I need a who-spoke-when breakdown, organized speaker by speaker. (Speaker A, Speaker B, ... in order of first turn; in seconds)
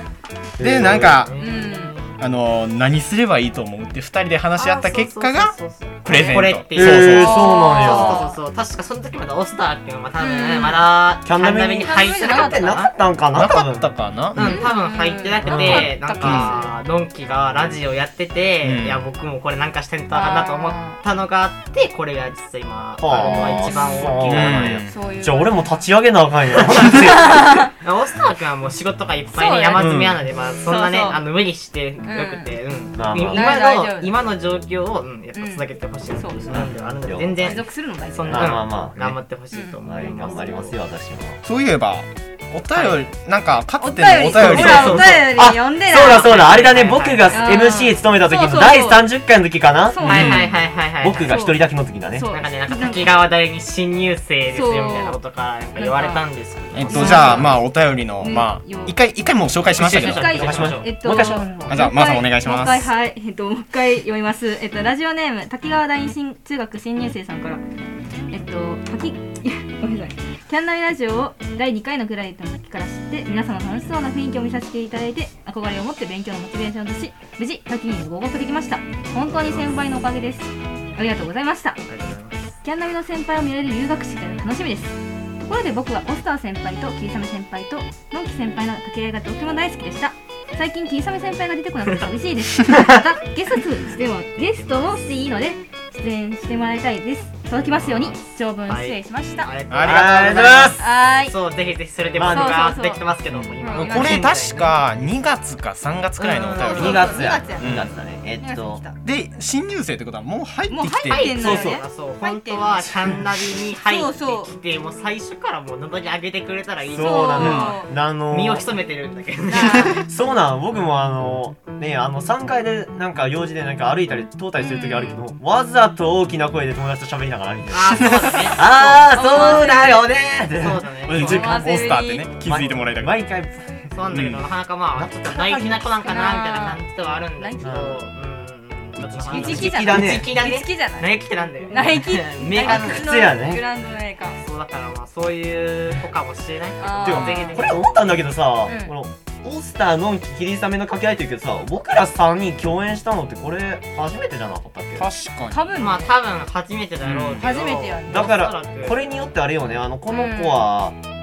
Speaker A: 0.6-1.3, 6.7-8.4, 11.2-13.9, 15.5-15.9, 23.0-27.4, 29.8-30.2, 33.0-33.6, 36.5-37.6, 38.3-39.2, 39.8-41.4, 44.4-50.1, 51.0-52.3, 60.2-61.7, 99.8-100.8, 102.2-102.6, 106.7-108.8, 111.4-111.8, 116.8-118.7, 120.0-131.7, 132.4-134.0, 134.9-135.8, 137.6-138.0, 139.2-140.3, 142.6-143.6, 147.0-155.1, 158.1-161.0
Speaker B: 0.6-1.3, 2.1-7.1, 13.3-14.6, 16.2-16.6, 18.6-19.0, 23.4-25.0, 41.5-44.7, 50.0-50.5, 56.7-60.7, 61.7-62.9, 99.7-100.2, 103.3-107.9, 109.0-111.4, 117.4-117.7, 131.1-133.2, 134.1-134.4, 139.0-139.3, 155.0-155.8, 157.0-157.5
Speaker C: 1.1-2.1, 4.6-12.9, 14.3-24.8, 27.0-40.8, 42.7-43.1, 44.4-47.9, 50.0-51.5, 52.2-57.6, 59.7-60.9, 79.3-79.8, 81.9-82.5, 91.8-92.1, 94.3-95.0, 97.5-104.8, 106.4-107.3, 111.1-120.1, 127.7-129.9, 130.5-131.7, 133.9-143.1, 144.3-147.8, 155.7-159.1
Speaker D: 1.4-1.9, 6.1-6.5, 7.0-8.4, 10.2-10.8, 11.8-12.8, 14.4-16.7, 20.1-21.0, 24.9-25.8, 27.2-27.7, 29.3-29.9, 30.6-31.2, 32.0-32.5, 33.2-34.1, 35.3-36.6, 37.4-38.6, 39.5-39.8, 43.8-46.6, 47.3-49.1, 49.9-50.5, 51.2-53.1, 54.5-55.2, 55.8-56.3, 56.9-57.5, 58.2-59.0, 59.9-67.6, 68.3-81.8, 82.6-99.5, 100.8-101.3, 102.2-103.0, 103.6-104.3, 106.2-107.8, 108.4-109.0, 110.7-113.1, 113.8-114.5, 117.0-117.9, 124.8-125.2, 129.1-130.1, 131.3-132.3, 136.0-136.8, 137.4-137.8, 139.3-141.1, 141.7-144.4, 146.8-147.6, 148.7-148.9, 155.5-156.1, 157.4-158.3, 160.1-160.7